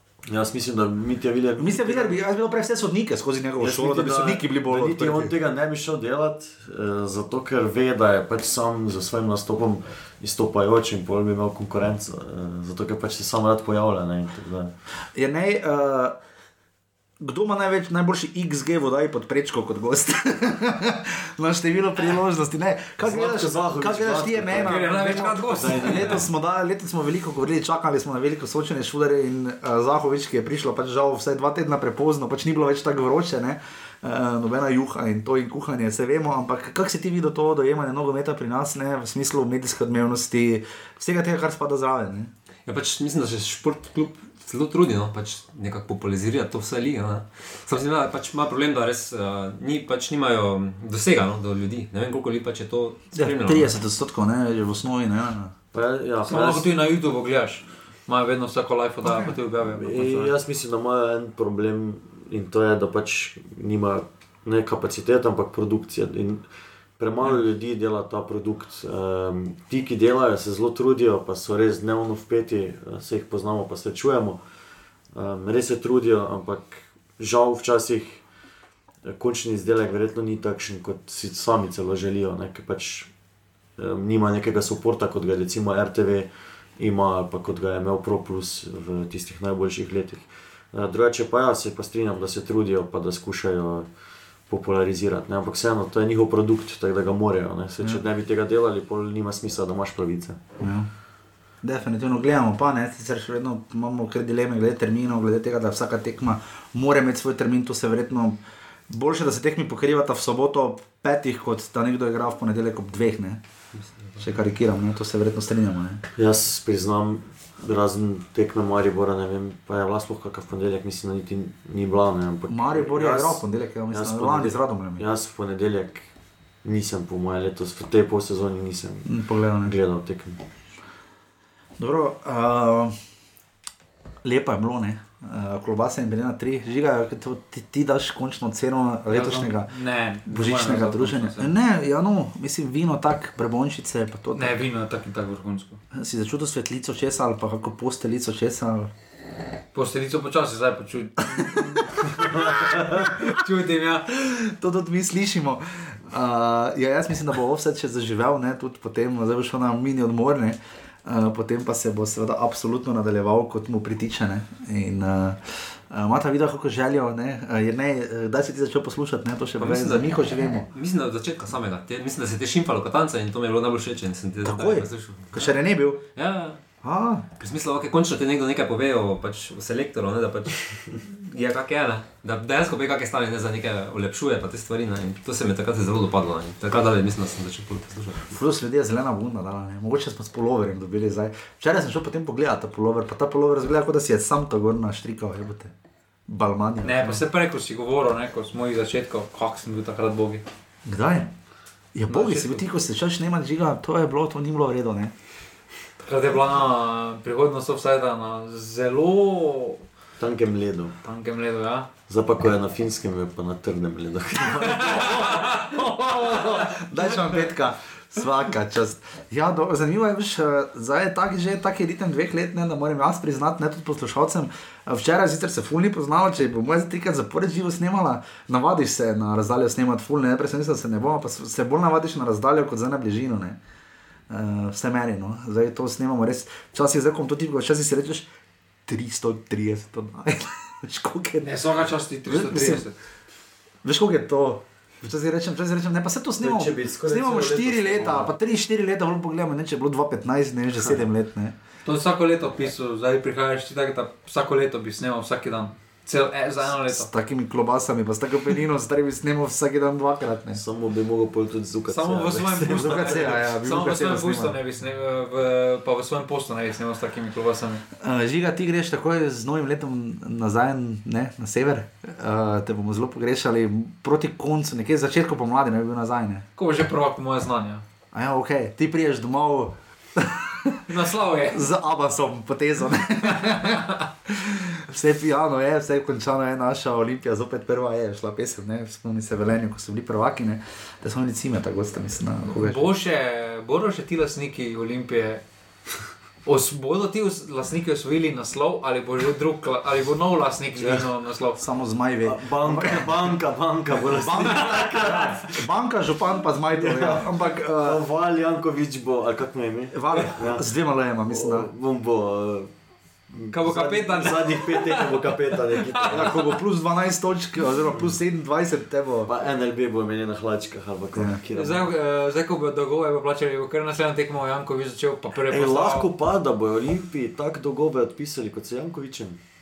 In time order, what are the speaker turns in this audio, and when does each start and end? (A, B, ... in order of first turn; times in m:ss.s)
0:00.2-0:02.2 A
0:01.6-0:05.3 B
0:03.6-0:14.7 A
0:15.1-0:16.2 B
0:17.2-0:42.3 B
0:23.0-0:26.3 A
0:24.5-0:26.2 C
0:42.7-0:53.7 D
0:53.1-0:55.5 B
0:55.7-0:56.7 A
0:56.2-1:00.3 C
0:59.0-0:59.3 B
0:59.6-1:06.4 A
1:07.0-1:14.4 A
1:15.1-1:18.2 A
1:19.0-1:23.1 A
1:23.8-1:33.9 A
1:34.5-1:40.4 A
1:40.6-1:40.9 B
1:41.6-1:53.4 B
1:54.2-1:56.0 B
1:56.2-2:06.1 A
2:02.5-2:05.0 B
2:06.6-2:10.4 A
2:09.0-2:09.7 B
2:11.8-2:12.9 B
2:14.2-2:19.7 B
2:19.1-2:21.5 C
2:20.2-2:24.6 B
2:24.3-2:25.8 C
2:25.9-2:28.9 B
2:29.7-2:34.1 C
2:31.3-2:33.4 B
2:34.1-2:50.7 B
2:49.6-2:55.5 D
2:54.4-2:56.0 B
2:56.2-2:56.6 D
2:56.8-2:57.3 B
2:57.4-3:08.4 D
3:08.3-3:15.7 B
3:16.3-3:17.2 B
3:16.8-3:20.4 C
3:20.8-3:21.3 B
3:21.9-3:25.1 B
3:22.1-3:22.6 C
3:26.0-3:29.8 C
3:30.2-3:31.0 A
3:31.0-3:31.9 C
3:32.1-3:35.4 A
3:34.7-3:53.6 B
3:54.3-3:58.3 B
3:58.9-4:02.8 B
4:01.4-4:02.9 C
4:03.8-4:11.5 B
4:06.4-4:08.3 A
4:11.8-4:17.1 C
4:16.8-4:20.6 B
4:20.5-4:23.4 A
4:21.9-4:27.8 C
4:22.5-4:24.6 B
4:28.0-4:36.4 B
4:36.6-4:37.8 C
4:38.1-4:40.8 B
4:40.9-4:41.6 C
4:41.5-4:53.0 B
4:52.6-4:55.4 C
4:56.4-5:01.6 C
5:01.6-5:03.4 B
5:02.2-5:05.6 A
5:04.0-5:08.0 B
5:06.8-5:10.7 A
5:09.9-5:11.7 B
5:11.3-5:12.7 A
5:13.3-5:16.4 A
5:13.5-5:16.4 C
5:16.1-5:19.3 B
5:19.2-5:21.9 A
5:21.1-5:21.4 B
5:21.5-5:26.1 C
5:25.5-5:29.4 A